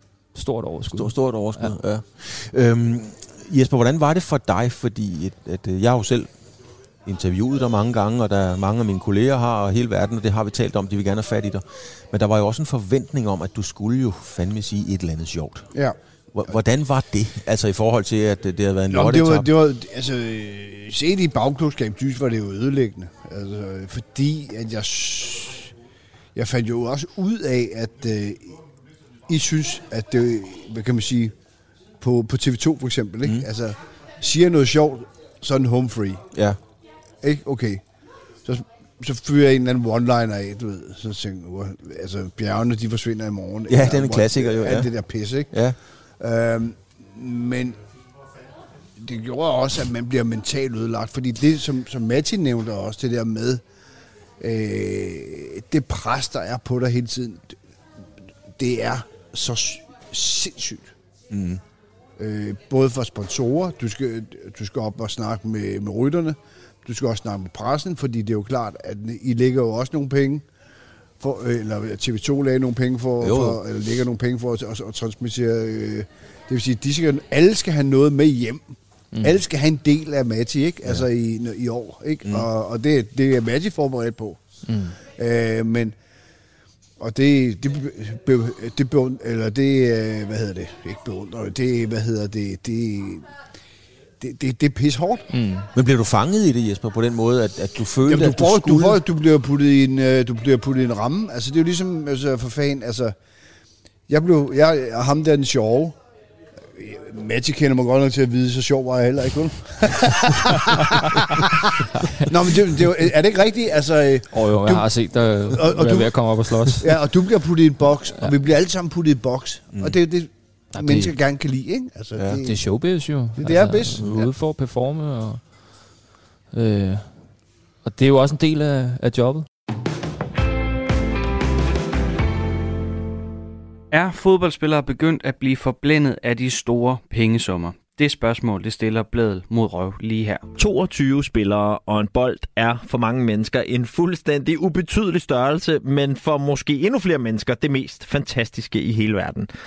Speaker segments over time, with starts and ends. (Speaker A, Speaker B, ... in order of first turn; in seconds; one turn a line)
Speaker A: 0.3-1.8
Speaker B: 1.0-19.5
Speaker C: 15.7-16.6
Speaker C: 18.9-25.8
Speaker C: 26.3-28.7
Speaker C: 29.2-31.4
Speaker C: 32.0-36.4
Speaker B: 36.3-36.6
Speaker C: 37.2-47.8
Speaker B: 43.7-45.8
Speaker C: 49.0-53.6
Speaker C: 54.4-57.6
Speaker C: 58.5-60.9
Speaker B: 61.3-61.6
Speaker C: 62.2-70.5
Speaker C: 71.2-86.0
Speaker B: 73.2-73.6
Speaker A: 79.1-79.4
Speaker A: 84.6-85.0
Speaker C: 87.0-93.4
Speaker C: 94.2-95.4
Speaker A: 95.3-95.7
Speaker B: 95.7-99.0
Speaker C: 98.1-103.2
Speaker C: 104.1-106.0
Speaker C: 106.7-110.8
Speaker C: 112.2-124.3
Speaker A: 114.3-117.0
Speaker A: 120.7-121.2
Speaker B: 122.2-122.4
Speaker A: 122.4-125.9
Speaker B: 124.0-124.3
Speaker A: 126.5-129.5
Speaker D: 133.9-140.4
Speaker E: 140.6-149.5